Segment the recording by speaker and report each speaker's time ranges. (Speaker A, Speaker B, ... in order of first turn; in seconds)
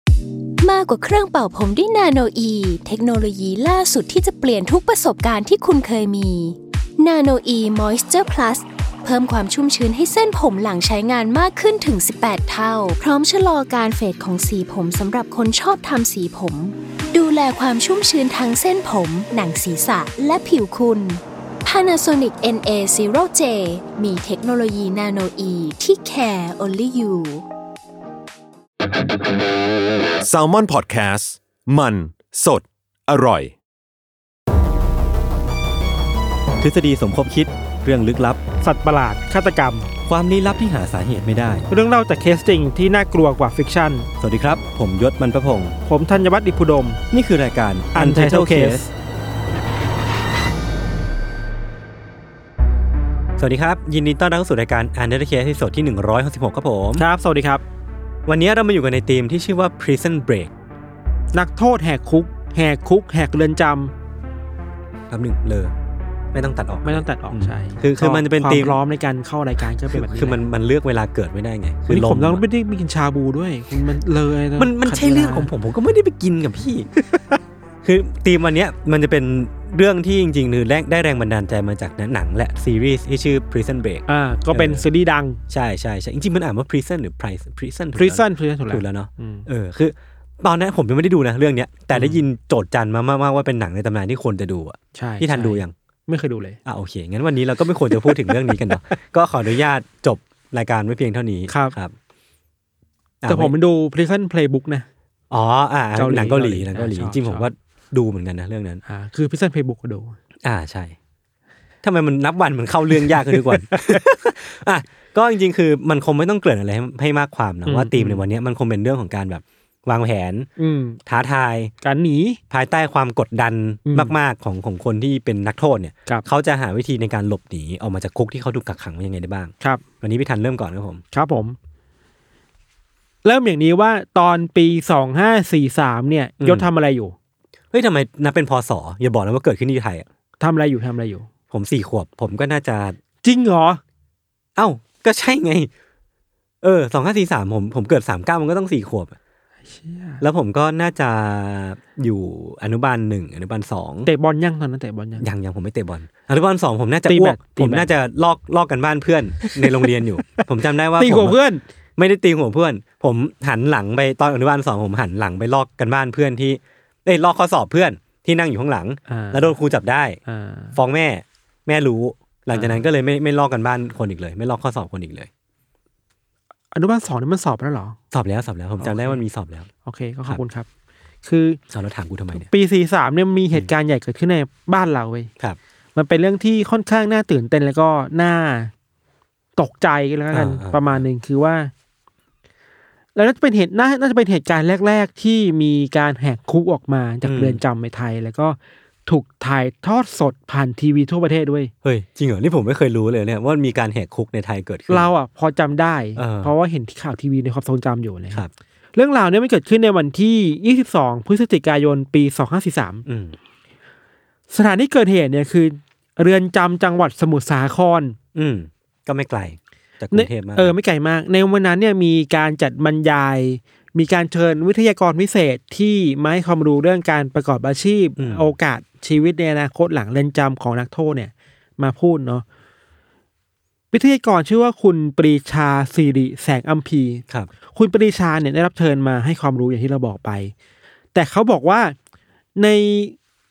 Speaker A: 0.6-27.4
Speaker B: 30.2-33.5
Speaker C: 36.6-38.4, 40.1-41.7, 44.2-45.8, 47.1-48.9, 53.4-57.0, 58.3-60.5, 65.1-65.7, 66.3-68.8, 69.9-72.4, 74.6-77.0, 77.8-84.8, 85.5-95.7, 96.7-102.0, 103.2-103.5, 105.3-108.8, 110.4-111.0, 111.8-120.5, 121.1-121.7, 122.5-131.0, 136.4-136.7, 137.7-140.1, 141.5-143.0, 144.6-145.7, 146.6-149.2, 150.2-154.1, 155.2-161.4, 162.0-170.2, 170.8-175.3, 178.1-179.7, 181.7-182.5, 190.3-191.1, 197.2-197.6, 201.8-205.1, 206.2-206.5, 213.1-213.4, 218.3-220.7, 228.2-228.5
Speaker D: 38.6-39.9, 41.7-44.1, 45.9-47.0, 47.9-48.9, 56.9-57.6, 61.3-63.9, 66.8-70.5, 71.9-75.5, 84.1-85.4, 88.0-89.5, 91.9-92.2, 95.0-96.6, 98.0-98.4, 101.5-101.8, 103.3-104.9, 106.0-107.5, 108.9-110.2, 113.1-114.0, 117.7-118.2, 120.6-121.0, 121.8-122.4, 123.8-124.1, 131.1-131.6, 133.2-137.2, 140.4-141.3, 143.2-143.8, 149.7-150.2, 154.1-155.3, 157.1-157.9, 159.4-161.6, 169.1-169.5, 170.3-170.8, 172.5-172.8, 176.7-178.0, 178.8-179.2, 179.8-180.7, 181.2-181.6, 182.3-185.3, 185.9-188.7, 189.6-191.7, 193.2-201.7, 204.9-208.4, 208.9-213.0, 214.5-218.2, 220.1-232.4, 233.9-240.5, 241.1-242.0, 242.6-243.2